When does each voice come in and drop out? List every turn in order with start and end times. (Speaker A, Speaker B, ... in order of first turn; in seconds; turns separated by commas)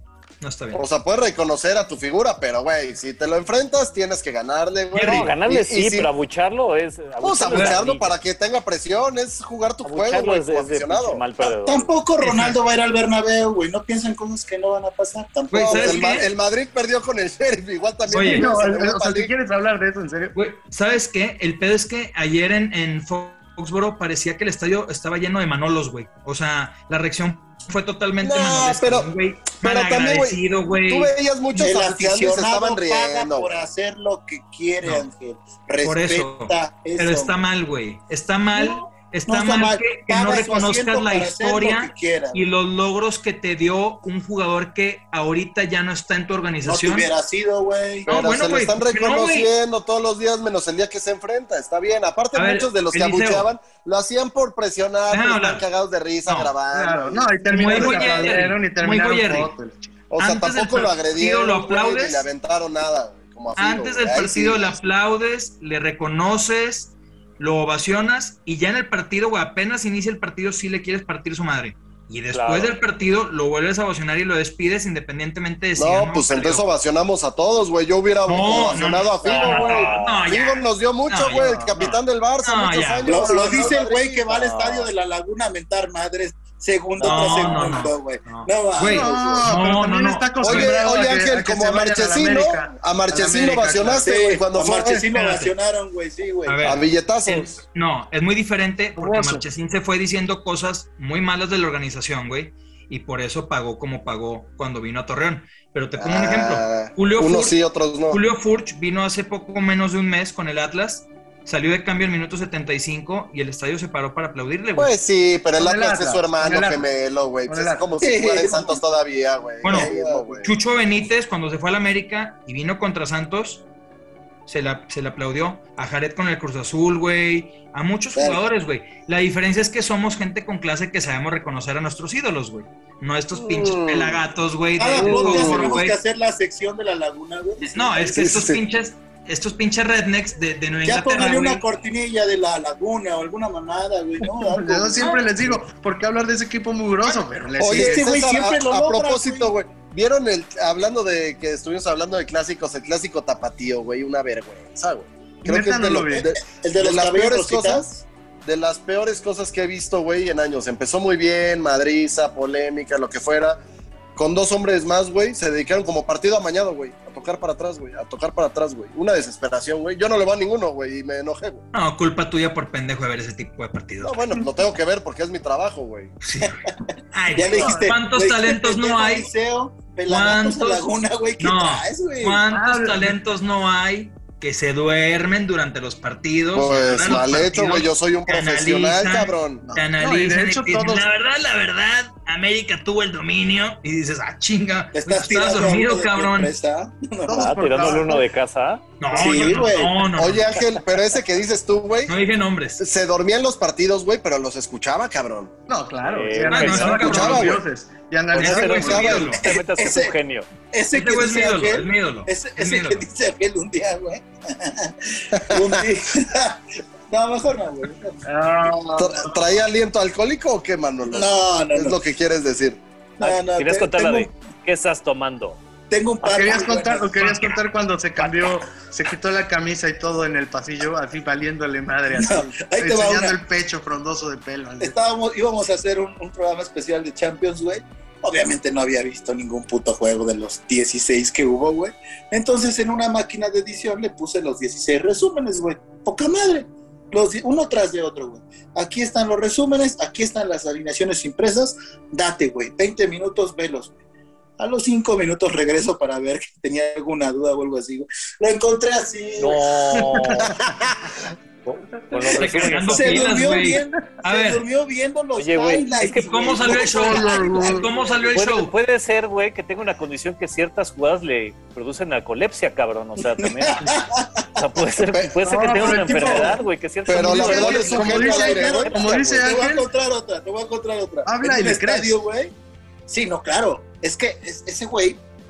Speaker A: 0.4-0.8, Speaker B: 0.7-6.1, Speaker A: 4.9-5.3, Speaker C: 5.0-8.2, Speaker B: 7.2-11.2, Speaker A: 7.5-7.8, Speaker C: 9.8-12.0, Speaker D: 11.4-16.2, Speaker A: 12.2-12.6, Speaker A: 15.5-16.3, Speaker B: 15.5-19.3, Speaker A: 18.1-18.4, Speaker E: 18.1-20.3, Speaker A: 20.3-31.1, Speaker B: 28.2-33.6, Speaker D: 31.5-37.4, Speaker A: 35.8-47.1, Speaker D: 38.5-42.4, Speaker D: 46.6-48.1, Speaker A: 48.1-49.5, Speaker B: 48.1-58.4, Speaker A: 52.3-53.5, Speaker A: 55.1-55.6, Speaker A: 56.2-56.5, Speaker E: 56.7-59.9, Speaker A: 57.5-59.5, Speaker B: 60.1-64.8, Speaker A: 60.2-62.3, Speaker A: 63.5-76.6, Speaker C: 72.3-72.7, Speaker B: 75.8-84.5, Speaker A: 78.2-83.2, Speaker D: 78.5-79.8, Speaker C: 79.2-80.3, Speaker E: 81.3-81.7, Speaker D: 83.0-89.5, Speaker C: 84.3-84.9, Speaker C: 87.0-87.8, Speaker A: 87.0-90.7, Speaker E: 88.8-94.1, Speaker B: 90.4-95.0, Speaker D: 94.0-96.8, Speaker A: 95.1-95.5, Speaker A: 96.4-107.6, Speaker B: 96.6-97.6, Speaker E: 99.0-99.4, Speaker B: 106.0-108.2, Speaker A: 108.1-114.9, Speaker B: 114.8-120.5, Speaker E: 115.6-116.9, Speaker E: 117.5-117.9, Speaker D: 118.0-118.8, Speaker A: 119.6-123.6, Speaker D: 119.7-120.3, Speaker A: 124.5-135.9, Speaker D: 128.1-128.4, Speaker B: 133.3-134.2, Speaker D: 134.8-138.2, Speaker B: 134.9-135.8, Speaker A: 137.7-141.6, Speaker B: 138.0-138.6, Speaker D: 140.8-145.3, Speaker E: 144.2-148.0, Speaker B: 147.6-163.6, Speaker D: 147.6-149.5, Speaker E: 155.4-156.3, Speaker D: 156.5-157.9, Speaker B: 164.2-171.6, Speaker A: 171.7-174.1, Speaker B: 174.0-176.1, Speaker A: 176.2-176.6, Speaker A: 177.1-179.3, Speaker D: 177.3-182.4, Speaker E: 177.5-177.9, Speaker A: 180.1-180.9, Speaker A: 181.4-196.5, Speaker E: 182.5-183.1, Speaker B: 186.5-189.6, Speaker E: 189.6-191.1, Speaker D: 194.9-197.5, Speaker E: 197.3-198.2, Speaker C: 197.3-198.8, Speaker A: 199.0-200.5, Speaker D: 199.1-200.0, Speaker B: 200.1-202.2, Speaker A: 202.1-202.8, Speaker B: 202.8-205.5, Speaker E: 205.7-209.3, Speaker C: 206.1-207.2, Speaker A: 206.5-207.6, Speaker B: 207.0-207.6, Speaker A: 208.3-209.4, Speaker C: 208.4-210.5, Speaker D: 209.0-210.1, Speaker D: 210.7-218.7, Speaker A: 210.9-213.1, Speaker B: 215.3-215.8, Speaker E: 218.2-219.3, Speaker B: 219.0-222.8, Speaker D: 221.1-222.0, Speaker D: 223.2-224.3, Speaker C: 223.2-225.6, Speaker D: 225.9-227.3, Speaker E: 226.2-234.9, Speaker D: 232.2-233.4, Speaker D: 234.8-253.9, Speaker D: 254.6-259.6, Speaker C: 259.4-260.5, Speaker C: 261.6-263.4, Speaker A: 262.4-264.6, Speaker D: 262.4-268.3, Speaker C: 265.3-267.6, Speaker A: 266.1-268.7, Speaker E: 266.9-267.9, Speaker C: 268.3-273.8, Speaker D: 273.8-274.2, Speaker C: 274.5-278.2, Speaker E: 275.4-276.5, Speaker D: 275.8-276.6, Speaker B: 277.1-279.2, Speaker E: 277.1-279.8, Speaker D: 277.5-282.5, Speaker E: 281.2-282.1, Speaker D: 283.1-285.2